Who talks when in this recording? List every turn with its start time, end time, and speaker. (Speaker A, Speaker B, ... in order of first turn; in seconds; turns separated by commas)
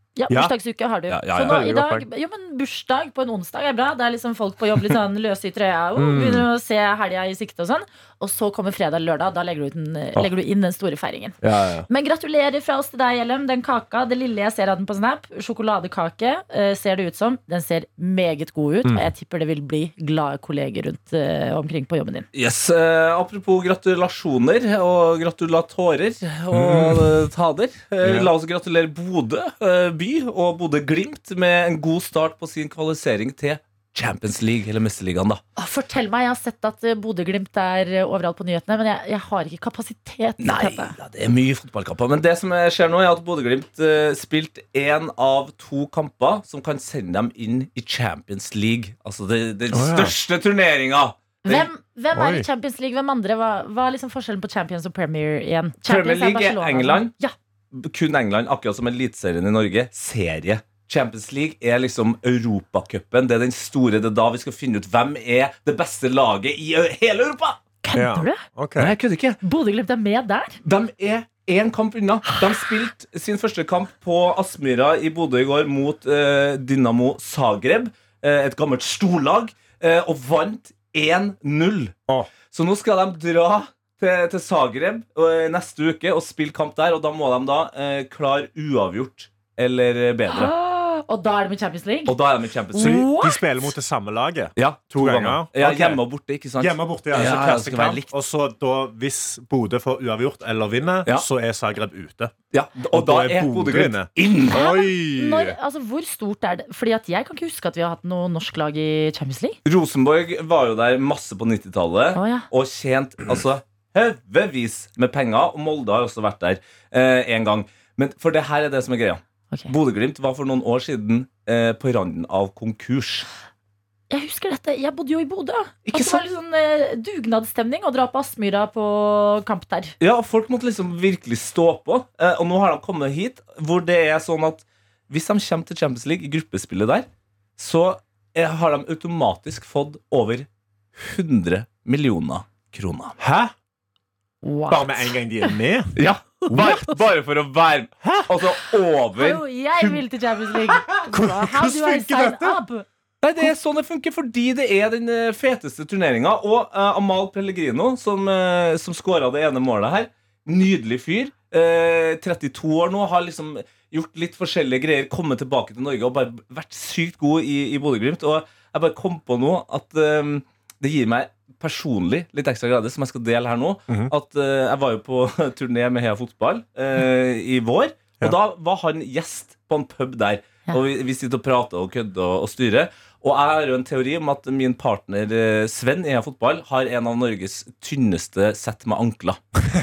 Speaker A: 0.1-11.4, Speaker B: 1.1-1.7, Speaker C: 1.4-2.0, Speaker C: 6.0-6.5, Speaker C: 11.4-11.9, Speaker A: 11.9-22.3, Speaker C: 18.8-19.1, Speaker B: 22.3-35.4, Speaker C: 26.5-27.2, Speaker C: 28.0-28.3, Speaker A: 35.6-40.9, Speaker B: 40.4-51.7, Speaker C: 49.7-50.2, Speaker A: 51.4-57.3, Speaker C: 52.1-52.5, Speaker B: 55.8-57.1, Speaker B: 57.7-67.6, Speaker A: 67.8-68.4, Speaker C: 67.9-68.9, Speaker B: 68.8-69.4, Speaker A: 69.4-70.6, Speaker B: 70.6-82.0, Speaker B: 82.5-90.5, Speaker A: 90.3-92.1, Speaker B: 92.1-93.0, Speaker A: 92.7-93.4, Speaker C: 92.8-96.0, Speaker B: 94.6-98.1, Speaker C: 96.6-102.3, Speaker B: 102.5-104.7, Speaker C: 102.9-105.5, Speaker A: 104.5-109.6, Speaker B: 109.6-123.2, Speaker A: 112.1-112.5, Speaker A: 124.1-129.9, Speaker B: 125.9-126.2, Speaker B: 130.0-137.1, Speaker B: 137.6-143.2, Speaker C: 143.2-143.5, Speaker A: 144.4-145.5, Speaker C: 144.7-146.8, Speaker B: 145.9-150.0, Speaker C: 148.0-148.3, Speaker A: 149.2-152.9, Speaker C: 150.7-152.6, Speaker B: 153.2-189.6